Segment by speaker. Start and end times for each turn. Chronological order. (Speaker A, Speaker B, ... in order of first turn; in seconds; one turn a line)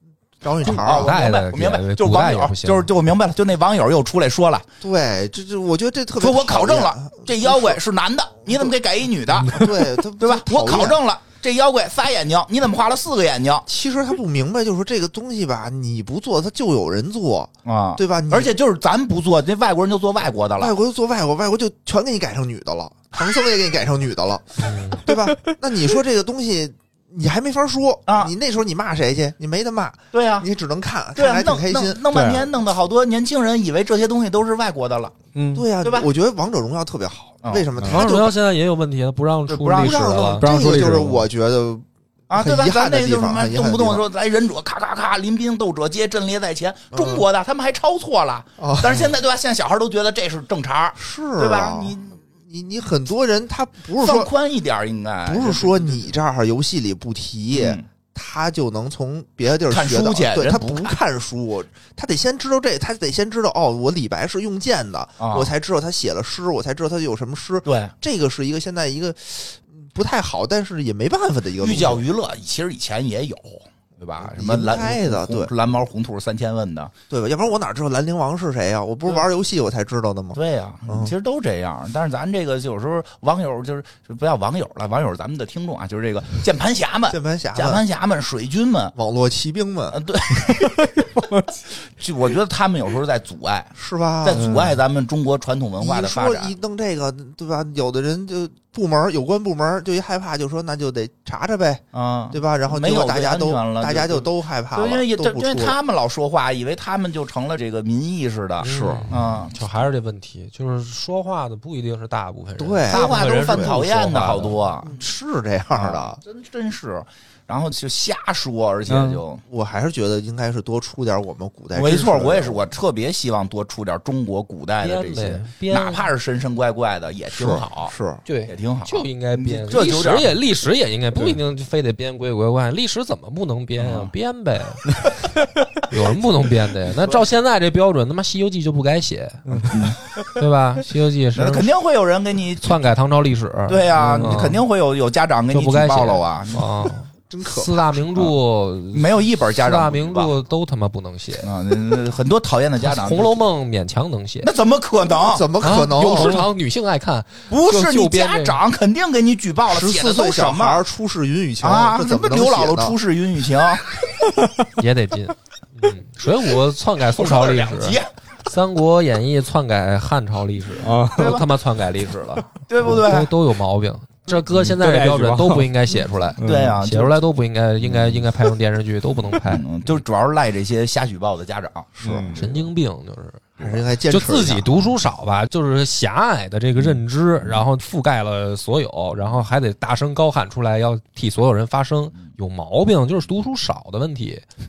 Speaker A: 0.4-1.1
Speaker B: 0.6-4.7
Speaker C: 0.6-2.9
Speaker A: 4.8-7.8
Speaker B: 6.2-9.6
Speaker A: 9.4-11.0
Speaker B: 10.2-13.7
Speaker A: 13.7-18.5
Speaker B: 17.6-20.7
Speaker A: 20.6-32.1
Speaker C: 24.6-25.0
Speaker B: 28.1-28.3
Speaker B: 30.1-30.5
Speaker B: 31.1-35.1
Speaker D: 32.1-32.5
Speaker D: 35.4-35.7
Speaker A: 35.5-38.3
Speaker B: 35.8-36.1
Speaker B: 37.4-38.3
Speaker C: 37.8-41.0
Speaker B: 39.5-40.3
Speaker A: 39.7-44.0
Speaker D: 40.4-41.2
Speaker B: 42.3-52.1
Speaker A: 46.9-47.2
Speaker A: 48.6-49.1
Speaker A: 51.0-54.3
Speaker B: 54.0-56.1
Speaker A: 55.2-72.1
Speaker B: 57.5-57.9
Speaker B: 59.7-61.0
Speaker B: 65.2-65.5
Speaker B: 67.7-67.9
Speaker B: 71.6-76.9
Speaker A: 74.2-75.5
Speaker A: 77.1-81.1
Speaker B: 80.3-88.9
Speaker A: 87.1-87.8
Speaker A: 89.0-90.0
Speaker B: 89.9-96.5
Speaker A: 93.8-94.8
Speaker A: 95.8-105.8
Speaker B: 101.9-109.6
Speaker A: 108.6-109.1
Speaker C: 108.6-114.7
Speaker A: 112.6-113.8
Speaker B: 112.9-114.9
Speaker A: 114.8-116.2
Speaker B: 115.8-119.4
Speaker D: 118.9-119.2
Speaker A: 119.5-122.7
Speaker B: 121.7-127.9
Speaker C: 124.8-126.1
Speaker A: 127.3-128.2
Speaker C: 128.3-134.9
Speaker B: 128.5-130.3
Speaker B: 133.8-134.1
Speaker C: 135.9-141.7
Speaker B: 137.0-137.2
Speaker D: 139.5-139.8
Speaker B: 139.7-140.0
Speaker B: 141.3-142.8
Speaker C: 142.6-144.6
Speaker B: 143.7-146.9
Speaker D: 144.0-144.6
Speaker C: 145.5-151.5
Speaker A: 147.3-147.9
Speaker B: 148.9-150.3
Speaker B: 151.4-153.3
Speaker C: 152.8-154.5
Speaker B: 154.4-155.5
Speaker A: 155.2-156.5
Speaker C: 155.6-158.6
Speaker B: 157.5-160.8
Speaker A: 159.7-163.0
Speaker B: 161.6-163.8
Speaker D: 164.3-164.7
Speaker C: 164.8-179.7
Speaker B: 167.1-168.1
Speaker D: 170.8-171.4
Speaker B: 171.0-171.5
Speaker B: 172.7-173.3
Speaker D: 174.7-175.7
Speaker D: 176.4-176.8
Speaker B: 176.4-177.2
Speaker B: 177.8-178.3
Speaker B: 179.4-182.7
Speaker D: 182.0-182.4
Speaker C: 182.3-194.4
Speaker A: 183.6-184.8